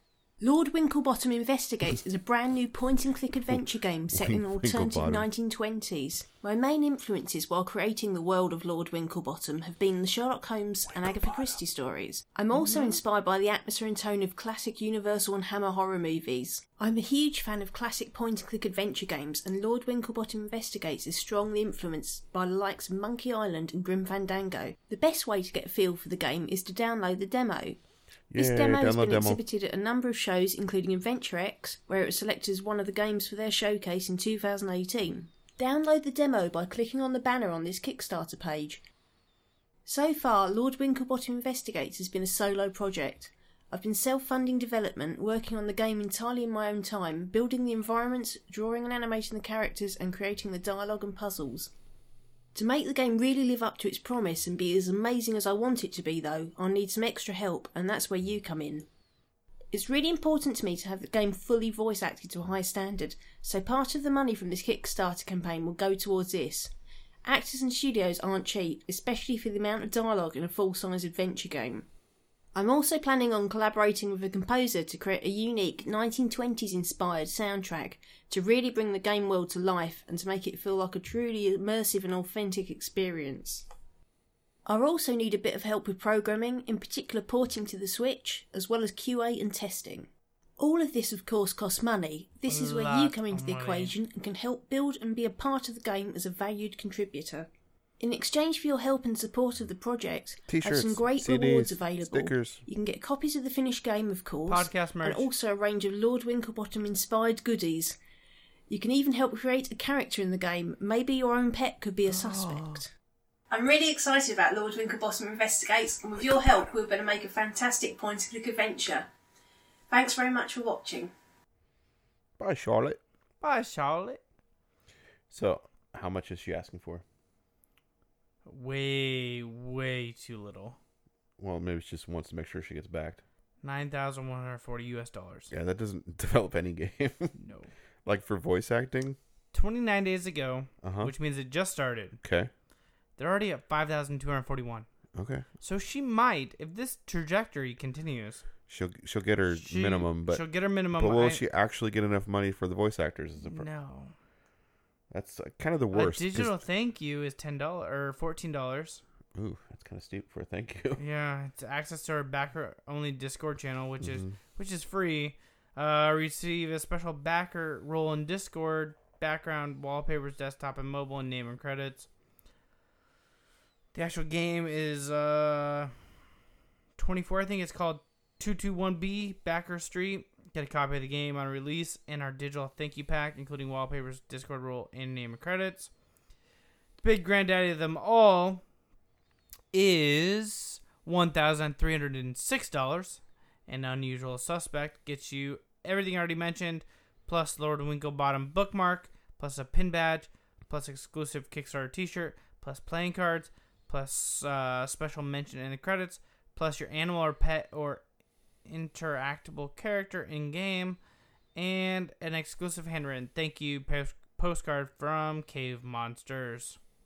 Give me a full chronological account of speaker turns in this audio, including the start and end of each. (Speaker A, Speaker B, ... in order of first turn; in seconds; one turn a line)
Speaker A: 0.4-27.8
Speaker B: 4.1-5.3
Speaker C: 12.6-12.9
Speaker B: 28.3-29.4
Speaker A: 28.3-38.8
Speaker A: 39.9-51.7
Speaker A: 52.5-58.9
Speaker A: 59.7-66.7
Speaker A: 67.2-71.9
Speaker A: 72.5-83.7
Speaker A: 84.7-97.5
Speaker C: 92.5-93.9
Speaker A: 98.0-108.0
Speaker B: 100.5-102.6
Speaker C: 104.5-105.3
Speaker A: 108.7-112.9
Speaker C: 112.1-112.8
Speaker A: 113.5-119.1
Speaker A: 119.9-121.1
Speaker B: 122.4-123.0
Speaker C: 123.4-124.2
Speaker B: 125.3-127.0
Speaker C: 128.4-130.8
Speaker B: 131.4-133.2
Speaker C: 133.6-135.5
Speaker B: 135.5-137.3
Speaker C: 137.3-137.7
Speaker B: 138.0-139.2
Speaker C: 139.5-142.2
Speaker B: 140.8-141.1
Speaker B: 142.2-142.5
Speaker C: 143.2-144.9
Speaker B: 145.1-145.4
Speaker C: 145.6-148.4
Speaker B: 148.7-153.7
Speaker C: 149.4-151.4
Speaker C: 153.4-154.1
Speaker B: 155.1-156.6
Speaker C: 155.9-159.0
Speaker B: 159.3-161.0
Speaker C: 161.0-172.1
Speaker B: 164.0-164.4
Speaker C: 173.9-175.9
Speaker C: 177.0-185.9
Speaker C: 187.0-188.6
Speaker C: 189.7-208.0
Speaker C: 208.7-211.0
Speaker C: 211.5-216.8